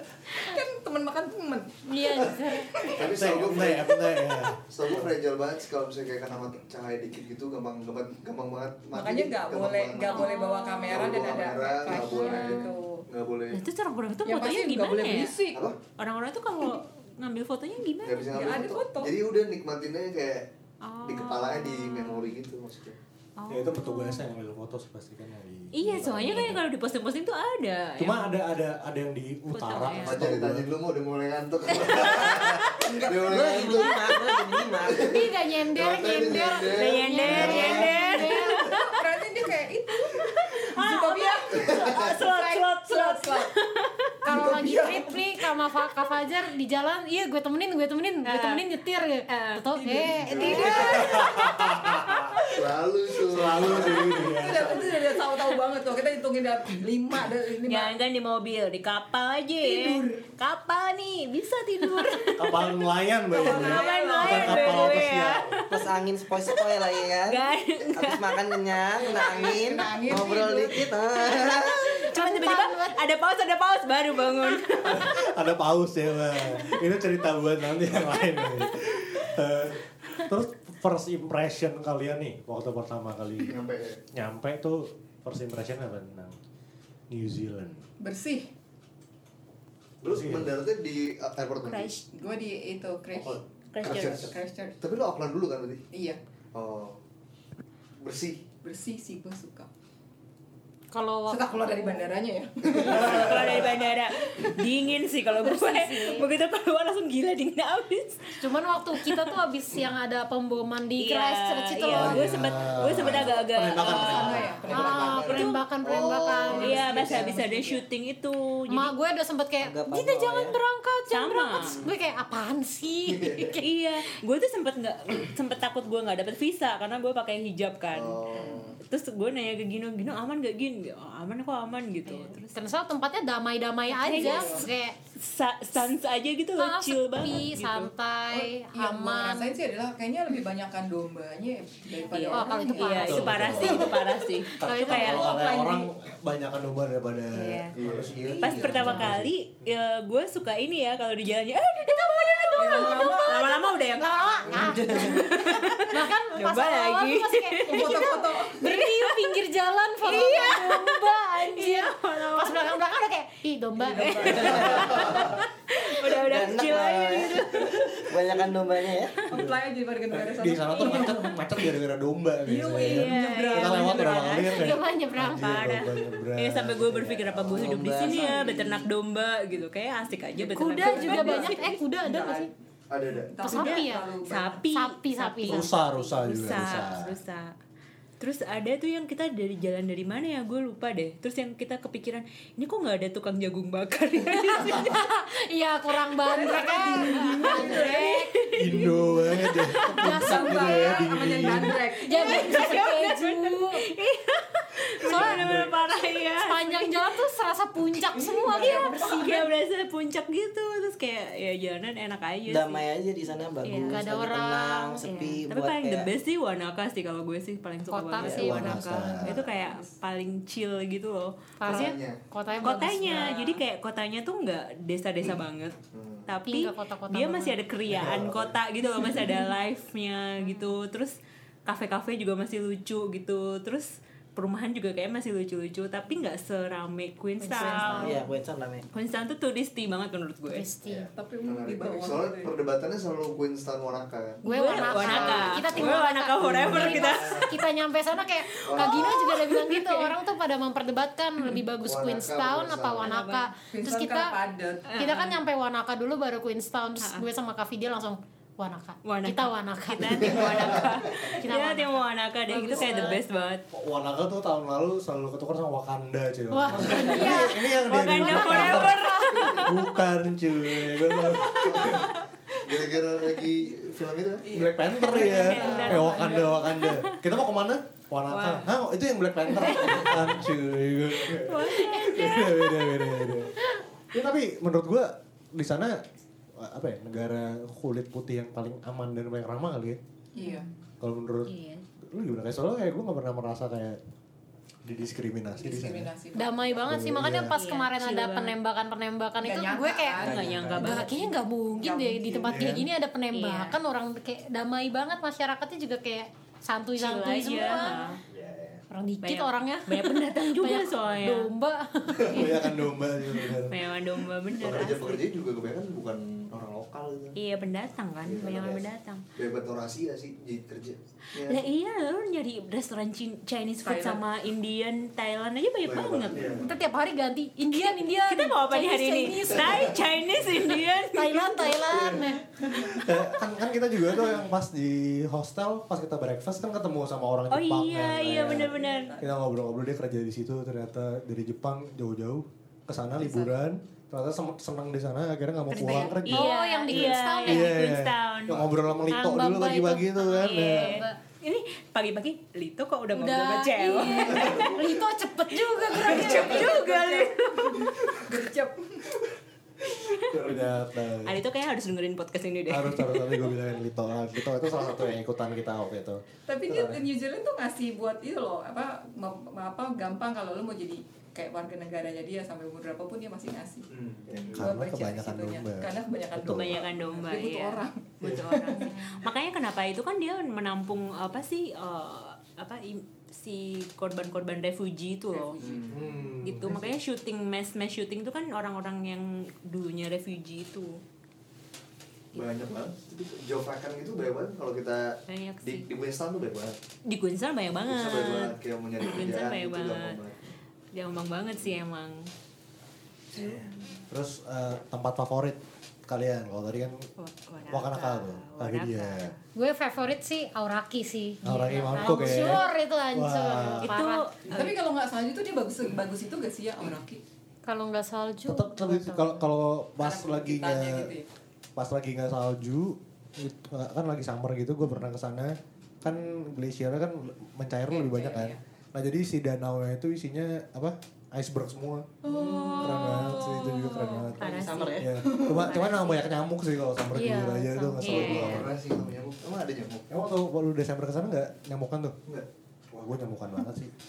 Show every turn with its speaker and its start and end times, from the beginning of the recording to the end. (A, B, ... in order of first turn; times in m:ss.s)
0:00.3-0:03.0 A
0:01.9-0:02.7 B
0:02.8-0:04.0 C
0:02.9-0:05.1 D
0:04.6-0:10.3 C
0:08.9-0:13.0 A
0:10.0-0:11.1 E
0:10.9-0:13.6 C
0:11.9-0:12.7 E
0:13.5-0:15.4 E
0:14.2-0:15.6 A
0:16.0-0:18.4 E
0:18.0-0:20.5 C
0:18.3-0:19.1 A
0:20.8-0:22.3 E
0:21.0-0:23.0 C
0:23.4-0:24.3 E
0:23.5-0:26.6 D
0:25.7-0:28.4 E
0:28.0-0:30.7 D
0:29.5-0:30.3 E
0:30.0-0:34.2 C
0:31.8-0:32.9 E
0:32.8-0:35.2 F
0:34.8-0:37.9 C
0:35.0-0:38.7 B
0:36.7-0:39.0 E
0:37.5-0:43.5 A
0:40.0-0:44.4 E
0:41.6-0:42.1 C
0:44.2-0:51.0 B
0:44.3-0:45.2 A
0:48.2-0:48.6 E
0:49.3-0:52.1 E
0:49.8-0:51.4 A
0:50.3-0:50.9 C
0:50.6-0:52.4 D
0:52.5-0:54.4 C
0:53.3-0:54.8 D
0:54.1-0:57.9 A
0:57.7-1:02.7 E
0:59.6-1:00.2 A
1:02.4-1:05.6 D
1:03.3-1:05.0 A
1:03.3-1:09.5 E
1:05.7-1:12.0 F
1:09.1-1:10.9 A
1:11.3-1:15.2 E
1:12.0-1:13.0 B
1:14.8-1:23.5 D
1:18.3-1:18.7 E
1:23.4-1:24.0 C
1:24.1-1:26.4 D
1:27.1-1:27.8 D
1:28.0-1:28.5 A
1:30.0-1:31.9 C
1:30.0-1:30.5 D
1:31.6-1:32.0 E
1:32.1-1:34.8 A
1:33.2-1:34.3 D
1:33.7-1:34.3 E
1:33.8-1:34.3 C
1:34.8-1:35.8 C
1:35.9-1:36.2 A
1:36.5-1:37.0 C
1:38.0-1:38.4 C
1:38.6-1:39.7 A
1:40.9-1:42.1 B
1:41.3-1:44.7 A
1:42.8-1:49.4 E
1:45.4-1:46.2 B
1:48.4-1:52.5 B
1:51.0-1:54.5 E
1:51.9-1:54.5 D
1:53.0-1:53.3 C
1:53.8-1:55.4 A
1:54.0-1:57.3 C
1:54.7-1:57.3 B
1:55.3-1:55.6 E
1:56.5-1:57.8 A
1:56.6-1:58.9 E
1:58.7-2:03.6 B
1:59.6-2:00.6 F
2:01.1-2:01.8 E
2:03.0-2:03.6 C
2:03.6-2:08.2 E
2:07.9-2:08.8 C
2:08.3-2:08.7 A
2:08.8-2:12.6 E
2:12.0-2:15.0 B
2:13.9-2:17.9 E
2:13.9-2:14.7 A
2:16.6-2:19.6 B
2:18.3-2:24.0 A
2:22.1-2:25.4 E
2:22.1-2:24.0 B
2:23.0-2:23.9 D
2:24.5-2:29.3 D
2:24.6-2:25.3 B
2:24.9-2:25.9 A
2:27.3-2:27.7 E
2:27.7-2:28.2 C
2:28.4-2:28.6 A
2:28.4-2:38.1 E
2:28.7-2:29.1 B
2:31.8-2:44.9 B
2:32.5-2:33.7 A
2:34.5-2:35.5 F
2:37.6-2:38.7 A
2:38.6-2:39.4 E
2:40.0-2:42.8 E
2:43.8-2:45.0 A
2:43.9-2:48.1 E
2:46.0-2:49.2 F
2:49.3-2:51.4 A
2:50.1-2:57.8 D
2:52.4-2:54.5 A
2:52.8-2:54.8 E
2:54.4-2:55.6 B
2:55.4-3:02.2 E
2:57.5-2:58.9 F
3:00.4-3:02.5 B
3:00.5-3:02.5 A
3:02.9-3:03.3 C
3:03.3-3:04.6 A
3:03.4-3:04.1 B
3:03.4-3:07.5 E
3:04.7-3:05.8 B
3:05.5-3:07.1 D
3:08.2-3:15.0 E
3:14.3-3:18.9 B
3:16.2-3:18.2 A
3:16.9-3:18.9 E
3:18.6-3:21.8 D
3:18.7-3:22.9 A
3:19.7-3:23.8 B
3:22.1-3:27.2 E
3:25.0-3:25.6 B
3:25.2-3:25.7 D
3:26.3-3:29.3 B
3:27.9-3:32.8 E
3:28.1-3:29.5 A
3:32.5-3:36.1 F
3:33.6-3:34.0 E
3:33.8-3:35.0 B
3:35.0-3:41.4 E
3:37.9-3:39.4 B
3:38.2-3:38.5 F
3:38.2-3:39.3 D
3:39.4-3:39.8 A
3:41.6-3:43.5 B
3:41.6-3:42.2 C
3:42.6-3:58.2 E
3:42.8-3:43.5 A
3:45.9-3:46.3 C
3:46.4-3:47.6 B
3:47.9-3:48.4 D
3:48.0-3:48.5 C
3:50.4-3:50.7 B
3:57.4-3:58.2 B
3:58.0-3:58.8 F
3:58.9-4:00.7 E
4:00.5-4:01.1 B
4:01.2-4:02.5 A
4:01.4-4:05.9 C
4:04.4-4:14.4 B
4:04.4-4:07.7 E
4:06.4-4:07.4 C
4:08.4-4:10.2 E
4:08.6-4:09.2 C
4:11.8-4:13.1 C
4:13.0-4:13.5 E
4:13.7-4:14.9 A
4:14.9-4:15.4 E
4:14.9-4:23.2 B
4:17.0-4:17.2 E
4:19.0-4:23.6 E
4:22.7-4:23.1 A
4:23.7-4:32.1 D
4:26.5-4:29.8 B
4:26.9-4:29.8 E
4:31.5-4:32.1 C
4:32.6-4:34.5 C
4:34.4-4:36.8 A
4:34.5-4:43.5 D
4:35.0-4:37.1 E
4:38.3-4:38.7 E
4:39.6-4:40.2 E
4:41.2-4:43.3 E
4:44.1-4:46.0 D
4:46.6-4:50.0 D
4:50.3-4:50.7 A
4:51.0-4:54.0 D
4:51.5-4:51.8 E
4:54.8-4:56.1 D
4:55.5-4:56.9 A
4:56.3-5:00.2 B
4:56.8-4:57.5 D
4:57.5-4:58.6 E
4:59.4-5:00.4 A
5:00.2-5:01.4 E
5:00.2-5:00.9 F
5:00.7-5:08.2 B
5:01.7-5:02.7 A
5:02.4-5:02.9 D
5:03.3-5:03.8 E
5:07.0-5:08.2 E
5:08.3-5:08.8 D
5:08.9-5:12.9 B
5:09.2-5:11.5 E
5:12.2-5:13.8 D
5:13.7-5:15.2 E
5:14.5-5:17.4 C
5:17.4-5:19.2 E
5:18.2-5:21.6 C
5:21.3-5:26.5 E
5:23.8-5:24.2 A
5:25.8-5:26.7 C
5:26.3-5:26.6 D
5:26.6-5:30.1 B
5:27.7-5:31.8 E
5:30.9-5:32.4 B
5:31.9-5:46.5 D
5:37.5-5:39.2 E
5:38.7-5:39.3 A
5:43.2-5:43.6 A
5:45.7-5:48.5 E
5:45.7-5:47.8 B
5:47.4-5:51.0 D
5:48.5-5:48.8 C
5:49.1-5:51.2 B
5:50.4-5:58.2 E
5:53.1-5:56.8 B
5:55.9-5:59.1 A
6:00.1-6:00.4 E
6:00.1-6:01.4 D
6:01.2-6:03.6 E
6:02.7-6:06.2 D
6:04.7-6:05.0 E
6:06.5-6:19.2 A
6:13.9-6:14.6 C
6:14.3-6:16.7 D
6:16.5-6:25.6 E
6:25.3-6:26.0 A
6:25.6-6:26.0 C
6:25.9-6:26.9 D
6:26.4-6:31.0 E
6:32.3-6:36.8 C
6:35.3-6:35.9 E
6:37.0-6:40.2 E
6:37.8-6:40.4 C
6:40.9-6:42.3 E
6:43.3-6:43.6 C
6:43.4-6:43.7 E
6:44.1-6:47.1 D
6:47.2-6:49.4 E
6:47.7-6:49.3 D
6:49.5-6:54.3 B
6:51.4-6:53.9 D
6:51.4-6:52.6 E
6:53.8-6:54.8 E
6:54.4-6:57.2 A
6:57.6-6:59.4 B
6:58.5-7:01.1 D
7:00.0-7:01.3 A
7:01.8-7:12.1 D
7:07.9-7:08.6 A
7:12.2-7:16.3 E
7:12.2-7:13.3 A
7:12.3-7:12.6 F
7:12.8-7:19.0 D
7:14.4-7:15.2 F
7:17.1-7:18.6 B
7:18.0-7:18.7 E
7:18.1-7:20.0 C
7:20.1-7:22.2 D
7:22.9-7:23.9 D